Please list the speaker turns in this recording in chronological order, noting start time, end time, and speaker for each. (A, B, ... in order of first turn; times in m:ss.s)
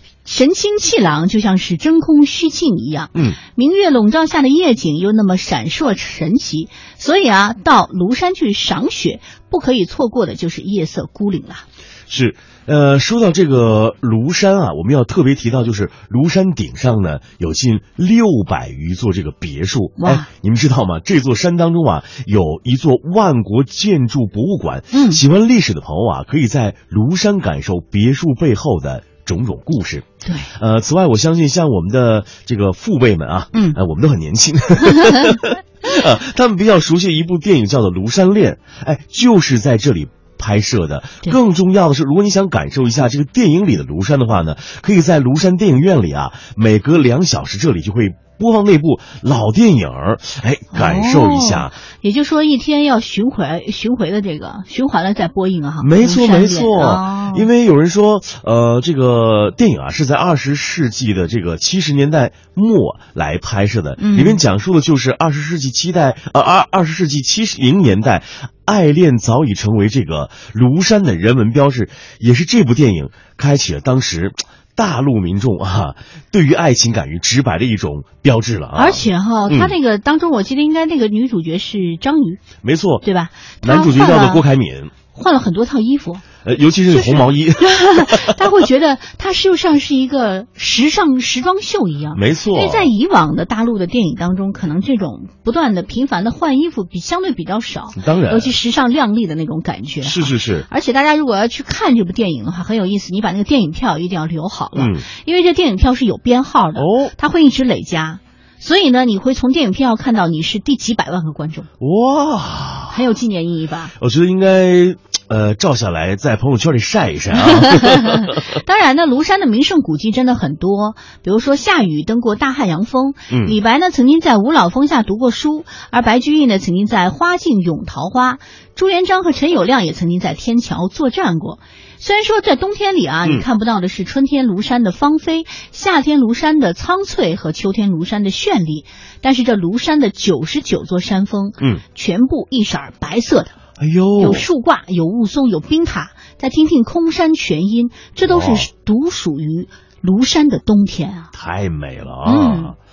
0:00.2-0:11.6 A
0:12.1-0:51.8 B
0:20.0-0:20.3 A
0:24.9-0:25.2 A
0:30.2-0:30.5 A
0:50.7-0:57.5 A
0:55.8-1:19.8 B
1:04.0-1:04.4 A
1:18.8-1:22.4 A
1:22.6-1:23.0 B
1:23.0-1:24.4 A
1:23.6-1:24.9 B
1:25.1-1:26.2 A
1:26.4-1:28.4 B
1:26.9-1:51.7 A
1:32.1-1:32.9 B
1:38.0-1:38.5 B
1:40.0-1:40.7 B
1:44.8-1:45.1 B
1:46.8-1:47.1 B
1:51.8-1:53.0 B
1:52.9-1:53.9 A
1:54.0-1:58.6 B
1:57.8-2:23.6 A
2:03.3-2:03.6 B
2:23.8-2:24.5 B
2:24.2-2:31.3 A
2:28.2-2:28.7 B
2:31.3-2:32.8 B
2:32.2-2:32.7 A